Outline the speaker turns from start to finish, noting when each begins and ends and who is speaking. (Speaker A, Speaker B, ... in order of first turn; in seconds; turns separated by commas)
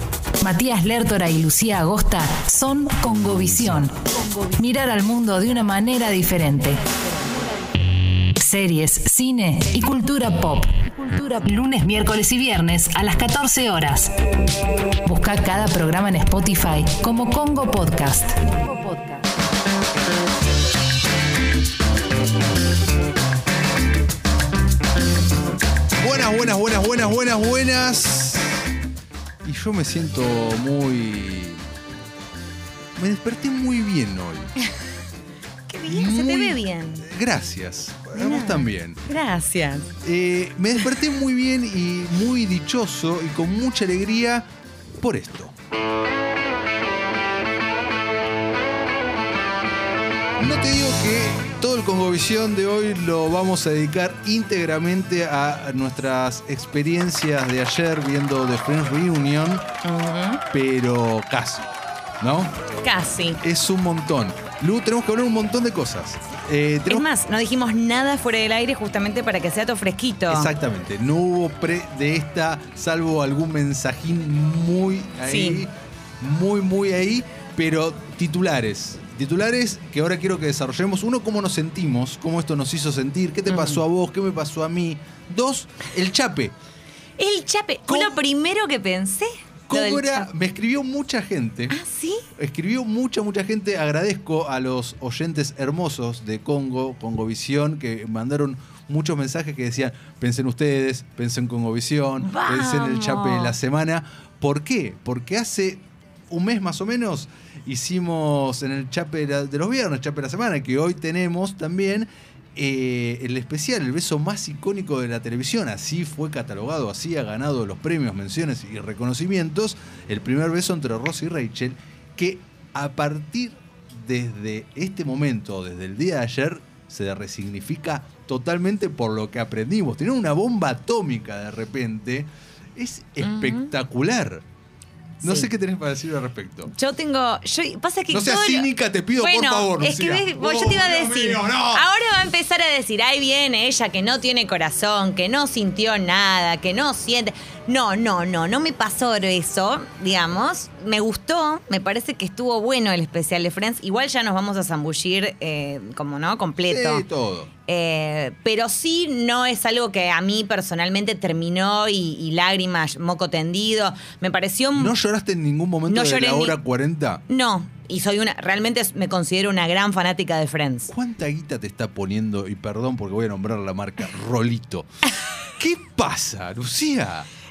Speaker A: 0.4-7.6, Speaker A: 8.3-14.1, Speaker A: 15.0-19.2, Speaker B: 26.0-28.6, Speaker B: 29.4-31.6, Speaker B: 33.0-34.5, Speaker C: 35.7-37.0, Speaker B: 35.9-39.0, Speaker C: 38.1-39.9, Speaker B: 40.0-44.5, Speaker B: 45.0-45.5, Speaker B: 50.4-59.7, Speaker C: 59.8-60.4, Speaker B: 60.5-62.5, Speaker C: 62.8-63.4, Speaker B: 63.4-67.1, Speaker C: 66.9-70.5, Speaker B: 70.3-86.5, Speaker C: 75.2-75.6, Speaker C: 83.5-83.8, Speaker C: 87.2-90.2, Speaker B: 87.9-88.2, Speaker B: 89.7-91.8, Speaker C: 91.7-92.3, Speaker B: 92.3-134.4, Speaker C: 102.2-103.5, Speaker C: 133.2-133.7, Speaker C: 135.2-135.5, Speaker B: 135.2-136.7, Speaker C: 136.7-138.7, Speaker B: 138.1-141.8, Speaker C: 139.2-157.0, Speaker B: 156.7-157.5, Speaker C: 157.7-164.9, Speaker B: 164.7-167.2, Speaker C: 165.9-166.6, Speaker C: 167.3-170.9, Speaker B: 170.9-174.9, Speaker B: 175.6-177.3